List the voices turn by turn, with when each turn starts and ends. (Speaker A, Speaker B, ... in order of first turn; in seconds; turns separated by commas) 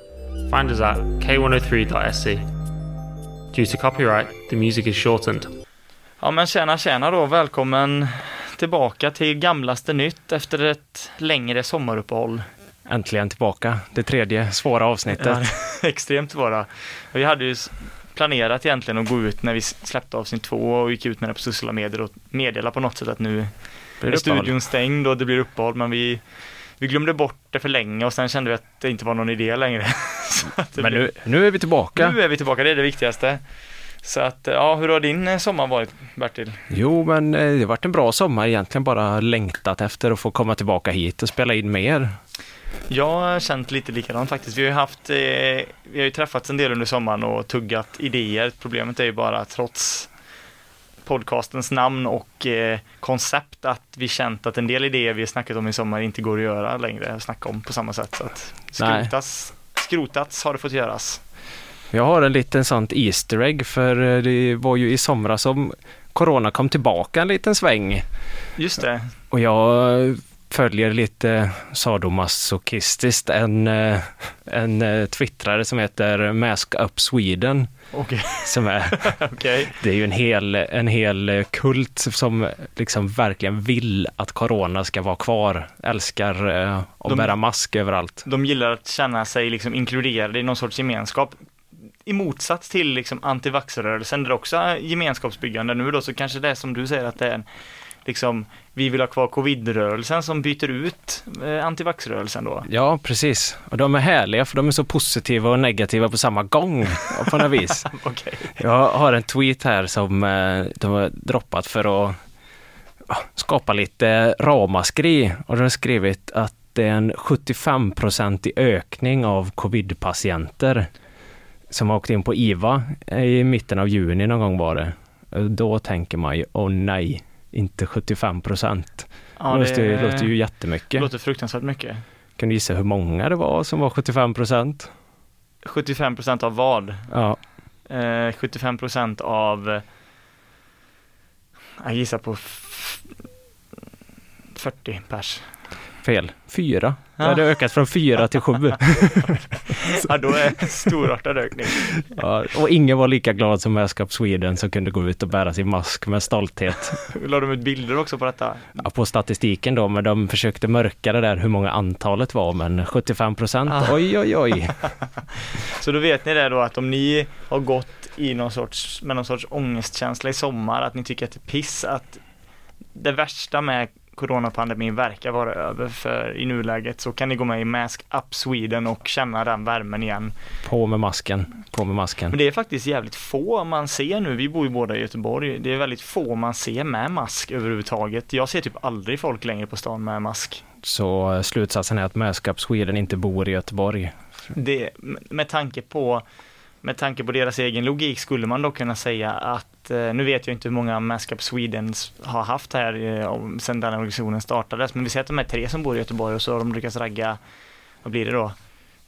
Speaker A: 0.5-2.5, Speaker A: 3.5-5.5, Speaker B: 6.2-12.4, Speaker C: 12.9-15.4, Speaker B: 15.1-26.2, Speaker C: 24.0-24.6, Speaker B: 26.8-31.1, Speaker C: 30.8-32.2, Speaker B: 31.9-33.4, Speaker B: 34.0-36.6, Speaker C: 36.7-42.2, Speaker B: 42.9-50.1, Speaker B: 51.0-61.2, Speaker C: 58.8-59.1, Speaker C: 61.9-68.1, Speaker B: 68.6-69.1, Speaker C: 69.3-77.9, Speaker B: 77.9-79.7, Speaker C: 78.4-88.2, Speaker B: 87.1-87.4, Speaker B: 88.2-91.4, Speaker B: 92.0-97.5, Speaker B: 98.0-102.7, Speaker C: 102.7-107.9, Speaker B: 107.8-108.5, Speaker C: 108.5-112.2, Speaker C: 113.1-120.9, Speaker C: 121.7-131.1, Speaker B: 129.4-132.0, Speaker C: 132.4-134.9, Speaker B: 135.6-137.1, Speaker C: 137.1-137.4, Speaker B: 137.9-139.8, Speaker B: 141.8-143.1, Speaker B: 144.6-145.5, Speaker C: 146.0-149.4, Speaker B: 147.2-147.8, Speaker B: 149.7-152.0, Speaker C: 152.0-157.0, Speaker B: 157.1-158.7, Speaker C: 158.8-164.9, Speaker B: 165.8-172.2, Speaker B: 172.9-180.3, Speaker C: 180.6-182.4, Speaker B: 182.3-190.6, Speaker C: 190.8-194.2, Speaker B: 194.5-196.2, Speaker B: 196.8-207.4, Speaker B: 208.0-208.6